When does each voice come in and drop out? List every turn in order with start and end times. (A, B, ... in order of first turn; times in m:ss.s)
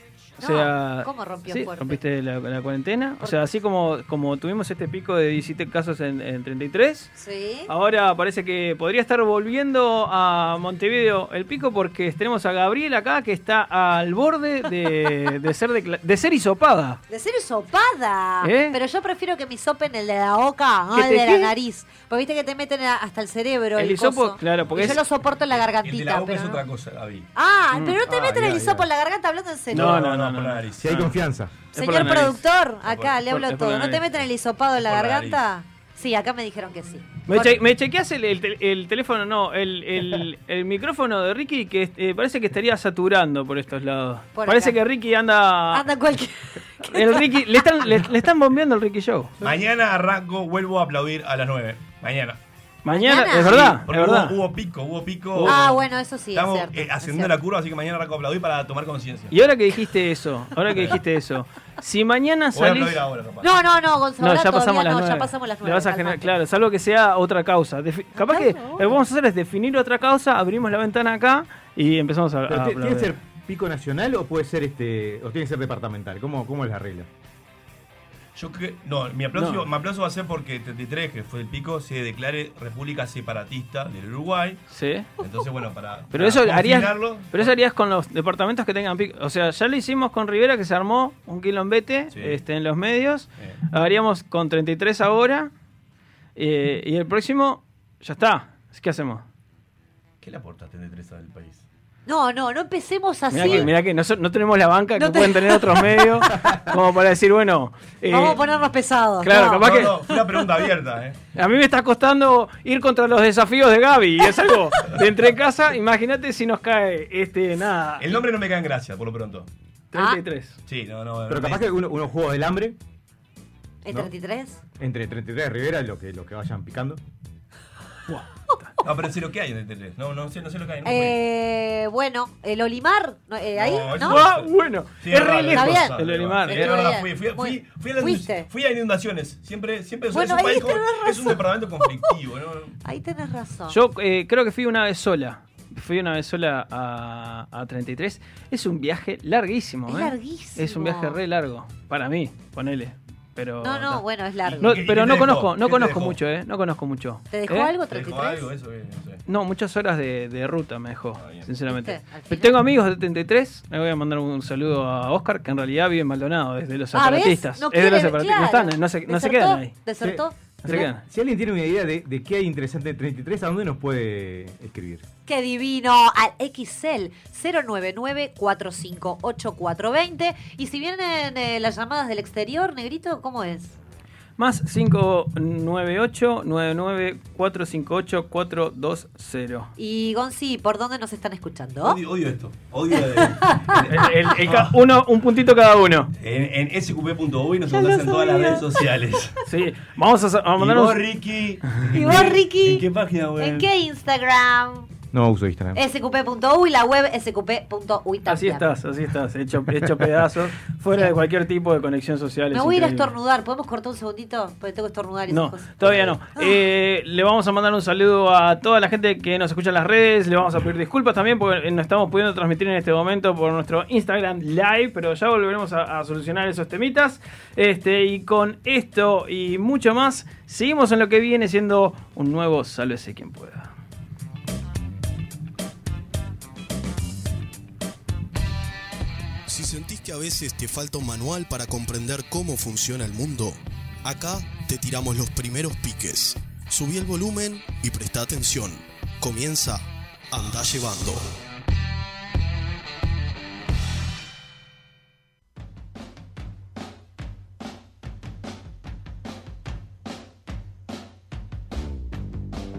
0:00.4-0:07.1 A
0:00.4-0:02.0 B
0:07.2-0:07.7 B
0:07.7-0:17.0 A
0:17.1-0:26.6 B
0:18.4-0:18.8 A
0:20.9-0:21.5 A
0:23.8-0:25.0 A
0:25.6-0:27.3 C
0:27.3-0:30.1 B
0:27.7-0:28.8 A
0:29.7-0:31.1 A
0:29.7-0:30.9 C
0:30.8-0:31.5 D
0:31.7-0:37.6 B
0:31.7-0:32.4 A
0:32.9-0:33.2 C
0:33.3-0:34.0 A
0:34.8-0:35.4 C
0:37.3-0:45.8 A
0:44.3-0:44.8 B
0:45.7-0:48.0 B
0:46.8-0:49.3 A
0:49.4-0:52.4 C
0:52.8-0:54.4 A
0:52.9-0:53.8 B
0:53.8-0:59.3 C
0:55.4-0:55.7 A
0:55.4-0:57.3 B
0:59.3-1:03.0 A
1:02.5-1:03.6 C
1:03.4-1:06.3 B
1:04.2-1:13.2 A
1:08.3-1:09.0 B
1:12.5-1:17.1 D
1:18.3-1:24.6 C
1:19.3-1:19.6 A
1:24.7-1:25.1 A
1:25.2-1:27.5 C
1:26.1-1:35.5 A
1:32.1-1:32.4 C
1:36.4-1:39.2 A
1:40.2-1:41.6 C
1:42.0-1:43.7 B
1:43.3-1:48.4 A
1:43.4-1:43.7 C
1:45.0-1:46.6 B
1:48.0-1:50.4 B
1:49.2-1:49.9 A
1:49.6-1:51.2 C
1:51.4-1:58.1 A
1:58.0-1:59.5 C
1:59.9-2:00.6 A
2:00.7-2:01.7 C
2:01.3-2:02.8 D
2:03.8-2:04.6 B
2:04.8-2:07.0 D
2:08.8-2:11.2 C
2:10.8-2:14.2 B
2:13.5-2:22.8 C
2:14.0-2:16.7 A
2:15.5-2:18.5 B
2:20.1-2:21.4 B
2:22.8-2:23.8 B
2:23.7-2:34.0 A
2:29.9-2:31.2 B
2:33.6-2:34.8 B
2:34.4-2:36.2 C
2:34.6-2:37.7 A
2:37.3-2:38.4 B
2:37.9-2:39.2 C
2:39.3-2:49.7 A
2:41.2-2:41.5 C
2:41.7-2:42.6 B
2:46.9-2:50.9 B
2:50.0-2:55.0 D
2:50.6-2:51.0 A
2:55.2-3:03.8 B
3:04.4-3:09.7 A
3:09.8-3:12.0 B
3:11.8-3:14.7 C
3:13.1-3:13.8 B
3:13.9-3:16.1 A
3:16.2-3:19.4 C
3:17.7-3:18.8 B
3:19.5-3:21.0 A
3:20.6-3:23.7 C
3:21.9-3:22.8 B
3:23.4-3:24.9 B
3:25.1-3:25.8 D
3:25.7-3:28.7 B
3:28.3-3:33.1 A
3:32.5-3:36.6 B
3:35.3-3:53.7 A
3:59.5-4:11.3 E